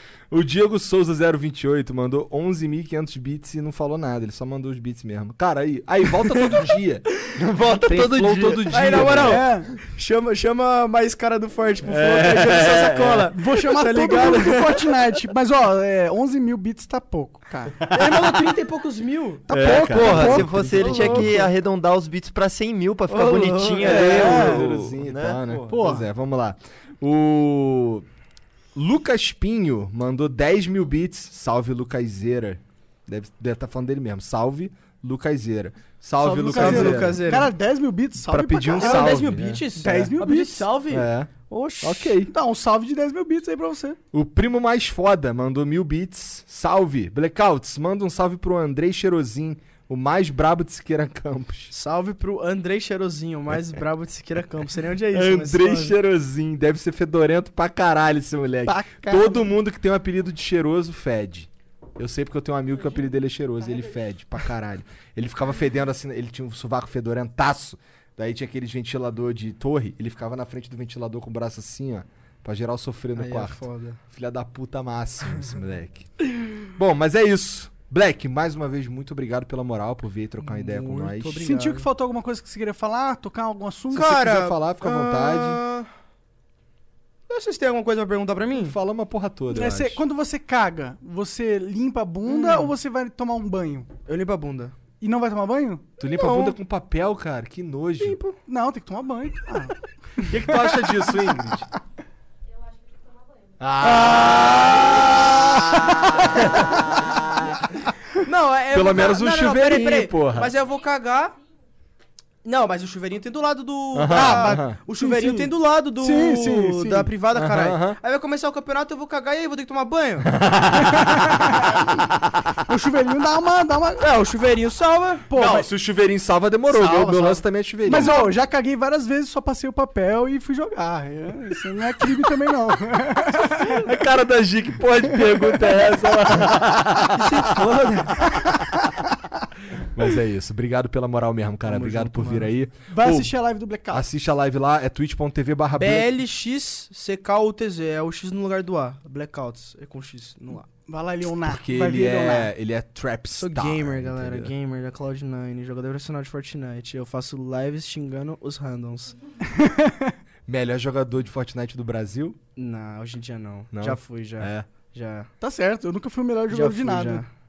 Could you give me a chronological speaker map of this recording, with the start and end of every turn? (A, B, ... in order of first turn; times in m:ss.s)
0:00.3-0:07.1 A
0:07.4-0:09.2 B
0:07.6-0:09.4 A
0:08.7-0:15.0 C
0:09.2-0:09.7 D
0:11.8-0:13.3 A
0:13.3-0:17.7 D
0:17.9-0:19.5 C
0:19.5-0:21.2 D
0:19.5-0:21.4 A
0:19.8-0:25.7 B
0:20.4-0:21.5 C
0:23.1-0:24.4 C
0:23.8-0:28.0 A
0:23.8-0:24.6 D
0:25.7-0:26.1 D
0:28.7-0:37.4 A
0:36.2-0:40.7 D
0:36.5-0:37.5 C
0:38.2-0:39.6 A
0:38.8-0:42.1 C
0:40.9-0:42.3 A
0:42.3-0:44.0 D
0:44.1-0:51.7 A
0:51.7-0:55.9 C
0:55.1-1:21.5 A
0:58.6-0:59.5 D
1:13.2-1:14.0 C
1:20.4-1:21.9 C
1:21.4-1:24.2 D
1:23.9-1:25.9 C
1:23.9-1:25.6 A
1:27.3-1:28.8 C
1:28.5-1:30.0 A
1:29.5-1:33.9 D
1:32.3-1:32.7 C
1:34.0-1:34.7 C
1:35.0-1:35.8 D
1:36.0-1:38.2 A
1:36.0-1:36.6 C
1:38.0-1:38.4 C
1:38.5-1:40.3 D
1:40.2-1:41.7 A
1:42.5-1:43.9 E
1:43.6-1:47.7 A
1:43.8-1:45.0 C
1:48.2-1:51.4 C
1:48.7-1:50.5 A
1:50.5-1:51.5 E
1:52.4-2:00.3 C
1:53.9-1:54.8 A
1:54.1-1:57.1 D
1:57.3-1:58.0 A
2:00.2-2:01.4 A
2:00.8-2:01.9 D
2:02.7-2:04.0 D
2:04.0-2:05.4 C
2:05.3-2:05.7 D
2:05.3-2:08.2 A
2:06.7-2:08.3 C
2:07.8-2:13.8 D
2:13.8-2:17.6 A
2:17.1-2:18.4 C
2:19.7-2:23.3 A
2:21.6-2:22.5 C
2:22.9-2:24.0 D
2:23.9-2:26.1 A
2:25.8-2:30.7 C
2:30.9-2:32.5 D
2:31.4-2:34.5 A
2:33.4-2:39.2 C
2:39.5-2:40.1 D
2:40.5-2:42.4 A
2:42.6-2:45.3 C
2:43.7-2:44.7 A
2:45.4-2:47.2 D
2:46.5-2:47.3 C